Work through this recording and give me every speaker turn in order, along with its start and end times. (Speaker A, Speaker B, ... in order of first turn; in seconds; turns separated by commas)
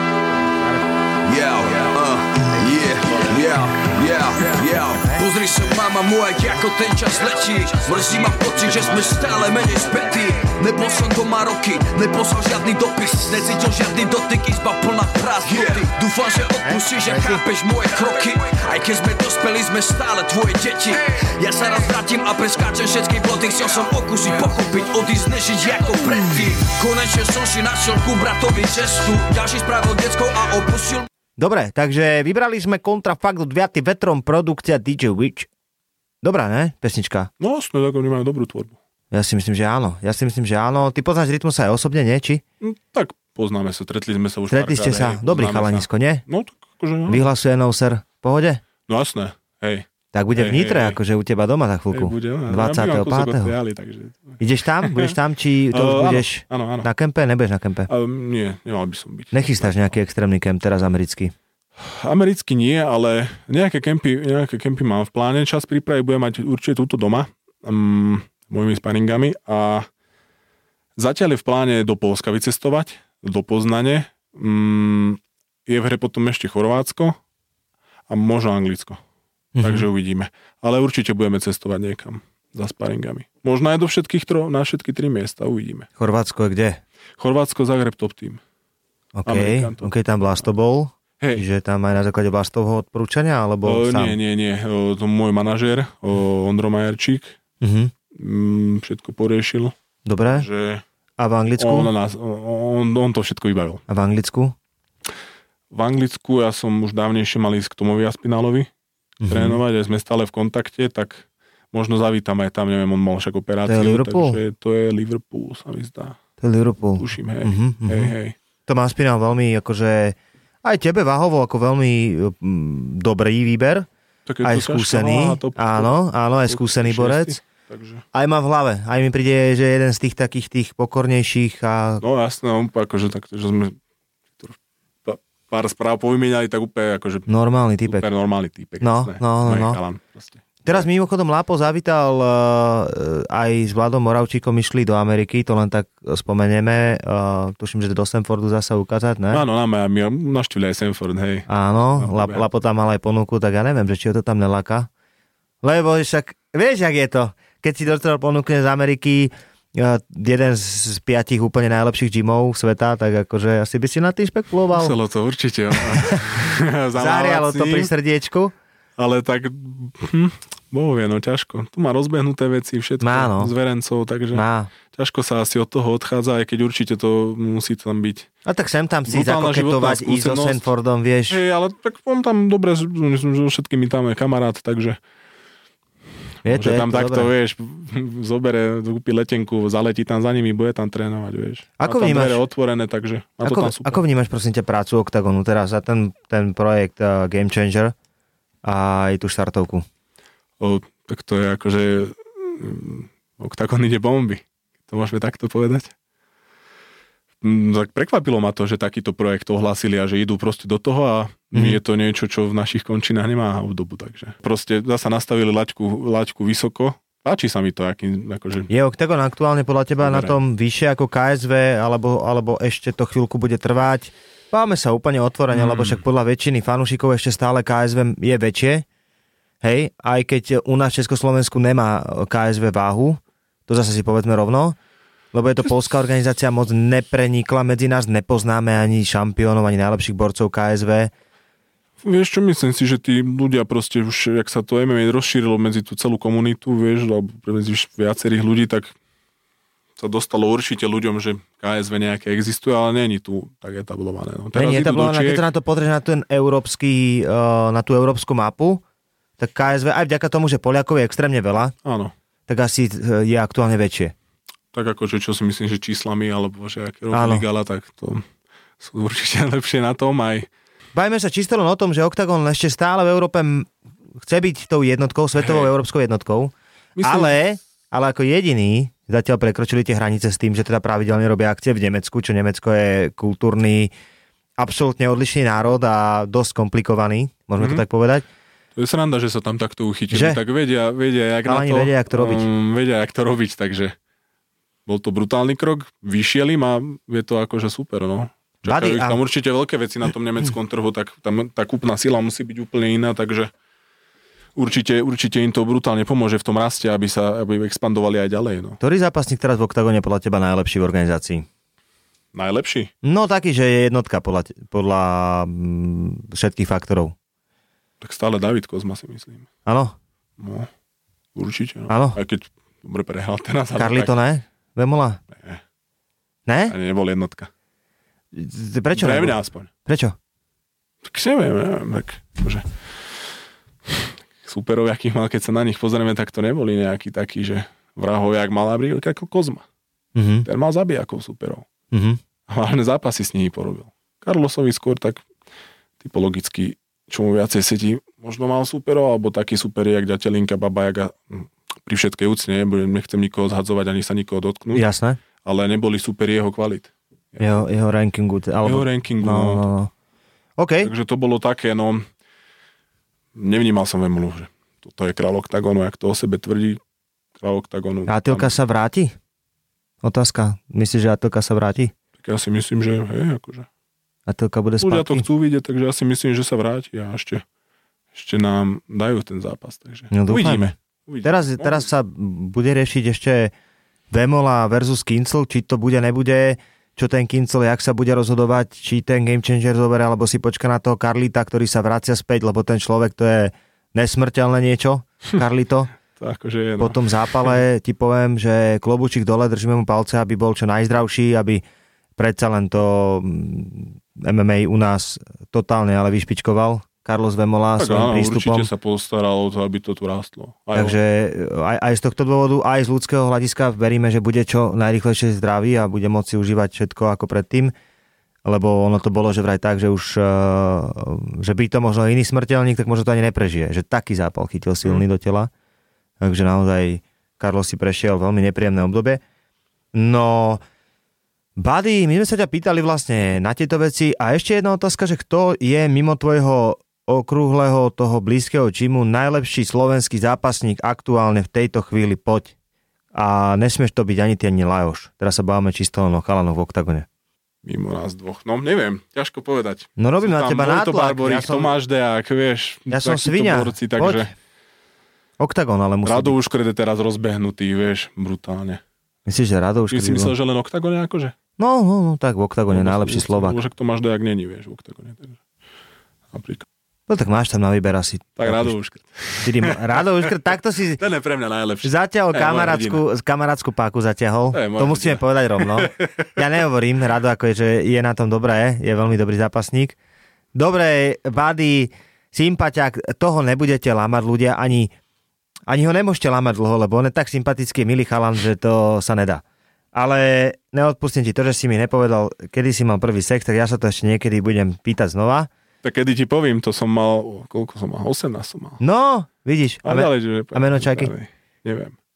Speaker A: 0.3-1.0, Speaker B: 1.2-31.1, Speaker A: 1.6-3.9, Speaker A: 4.5-5.2, Speaker C: 8.8-9.3, Speaker A: 16.6-17.4, Speaker A: 31.4-35.5, Speaker A: 36.2-37.3, Speaker C: 37.4-38.8, Speaker A: 39.1-42.4, Speaker C: 42.6-47.2, Speaker A: 44.5-46.2, Speaker A: 47.1-48.6, Speaker C: 48.9-51.0, Speaker A: 50.1-53.6, Speaker C: 51.9-55.2, Speaker A: 54.4-57.9, Speaker C: 55.7-56.9, Speaker C: 57.9-60.0, Speaker A: 59.3-61.3, Speaker C: 61.8-69.9, Speaker C: 71.0-77.2, Speaker C: 78.1-79.0, Speaker A: 79.6-79.9, Speaker C: 79.6-85.9, Speaker A: 86.0-86.8, Speaker C: 87.2-88.4, Speaker A: 89.2-94.2, Speaker C: 89.3-89.9, Speaker C: 93.6-97.4, Speaker A: 97.6-97.9, Speaker C: 98.1-99.8, Speaker A: 100.0-100.5, Speaker C: 100.3-100.8, Speaker A: 101.2-101.9, Speaker C: 101.6-103.8, Speaker A: 103.9-104.5, Speaker C: 105.7-108.7, Speaker A: 109.2-109.6, Speaker C: 109.3-116.2, Speaker A: 113.7-114.4, Speaker A: 116.4-118.1, Speaker C: 117.0-118.4, Speaker A: 118.7-123.9, Speaker C: 124.3-125.9, Speaker A: 124.4-127.4, Speaker C: 126.5-128.0, Speaker A: 128.1-132.0, Speaker C: 132.0-133.8, Speaker C: 134.4-137.3, Speaker A: 137.3-138.1, Speaker C: 137.9-140.9, Speaker A: 138.8-139.8, Speaker A: 140.7-149.4, Speaker C: 149.3-152.4, Speaker A: 151.5-154.9, Speaker A: 155.6-164.9, Speaker C: 164.7-167.9, Speaker A: 166.0-168.5, Speaker C: 169.0-178.3, Speaker A: 173.0-173.5, Speaker A: 174.3-174.7, Speaker A: 178.5-181.4, Speaker C: 179.1-180.7, Speaker C: 181.3-185.0, Speaker A: 186.4-187.3, Speaker C: 186.4-194.0, Speaker A: 191.8-192.4, Speaker A: 193.4-197.9, Speaker A: 198.6-199.9, Speaker C: 200.6-205.9, Speaker C: 207.4-218.7, Speaker A: 211.5-211.8, Speaker A: 218.7-228.8, Speaker C: 220.0-220.4, Speaker C: 225.5-226.0, Speaker A: 229.6-234.8, Speaker A: 235.3-241.1, Speaker C: 242.0-248.9, Speaker C: 250.0-255.4, Speaker A: 254.6-258.8, Speaker A: 259.4-261.8, Speaker C: 261.8-262.1, Speaker A: 262.5-264.1, Speaker C: 264.7-268.3, Speaker A: 267.1-267.4, Speaker C: 268.8-270.5, Speaker A: 270.9-273.7, Speaker A: 274.2-283.9, Speaker C: 275.4-275.7, Speaker C: 277.0-277.4, Speaker A: 284.6-288.2, Speaker C: 287.6-287.8, Speaker C: 288.8-294.0, Speaker A: 290.1-290.4, Speaker A: 291.4-292.5, Speaker C: 294.9-303.5, Speaker A: 298.6-299.2, Speaker C: 304.6-308.8, Speaker A: 308.8-311.5, Speaker C: 312.3-312.9, Speaker A: 313.0-317.1, Speaker C: 318.0-319.5, Speaker A: 319.7-319.9, Speaker C: 320.4-320.7, Speaker C: 321.4-324.1, Speaker A: 321.9-322.2, Speaker A: 323.8-325.2, Speaker C: 325.3-325.6, Speaker A: 326.5-326.7, Speaker C: 326.7-327.5, Speaker A: 328.3-330.2, Speaker C: 328.9-329.7, Speaker C: 331.0-333.4, Speaker C: 333.9-339.7, Speaker A: 340.2-340.5, Speaker C: 340.4-341.7, Speaker A: 341.9-342.2, Speaker C: 342.5-345.3, Speaker C: 346.0-354.9, Speaker A: 354.7-355.2, Speaker C: 355.4-357.4, Speaker A: 357.4-359.9, Speaker C: 358.6-359.6, Speaker A: 360.6-360.9, Speaker C: 360.8-362.1, Speaker C: 363.4-366.8, Speaker C: 367.4-368.5, Speaker A: 368.1-369.1, Speaker A: 370.0-371.9, Speaker C: 372.2-373.7, Speaker A: 374.3-375.3, Speaker C: 374.8-377.4, Speaker C: 378.1-381.9, Speaker A: 380.1-383.5, Speaker A: 384.1-395.9, Speaker C: 396.1-397.6, Speaker A: 396.8-401.6, Speaker A: 402.2-408.7, Speaker C: 407.8-411.0, Speaker A: 410.7-417.7, Speaker A: 418.4-425.5, Speaker A: 426.2-429.2, Speaker A: 429.9-430.6, Speaker A: 431.6-442.5, Speaker A: 443.1-447.1, Speaker C: 447.6-454.3, Speaker A: 450.0-451.7, Speaker A: 452.9-454.3, Speaker A: 455.4-456.4, Speaker C: 456.0-458.8, Speaker A: 459.3-460.3, Speaker C: 459.9-461.4, Speaker A: 461.6-463.6, Speaker C: 462.7-465.4, Speaker C: 466.3-466.7, Speaker A: 467.1-468.7, Speaker C: 468.4-470.3, Speaker A: 469.4-471.0, Speaker C: 471.0-473.0, Speaker A: 471.8-480.0, Speaker C: 474.5-476.3, Speaker A: 480.6-484.9, Speaker A: 485.7-489.4, Speaker A: 489.9-495.5, Speaker C: 495.8-498.8, Speaker A: 498.8-501.1, Speaker C: 499.8-502.0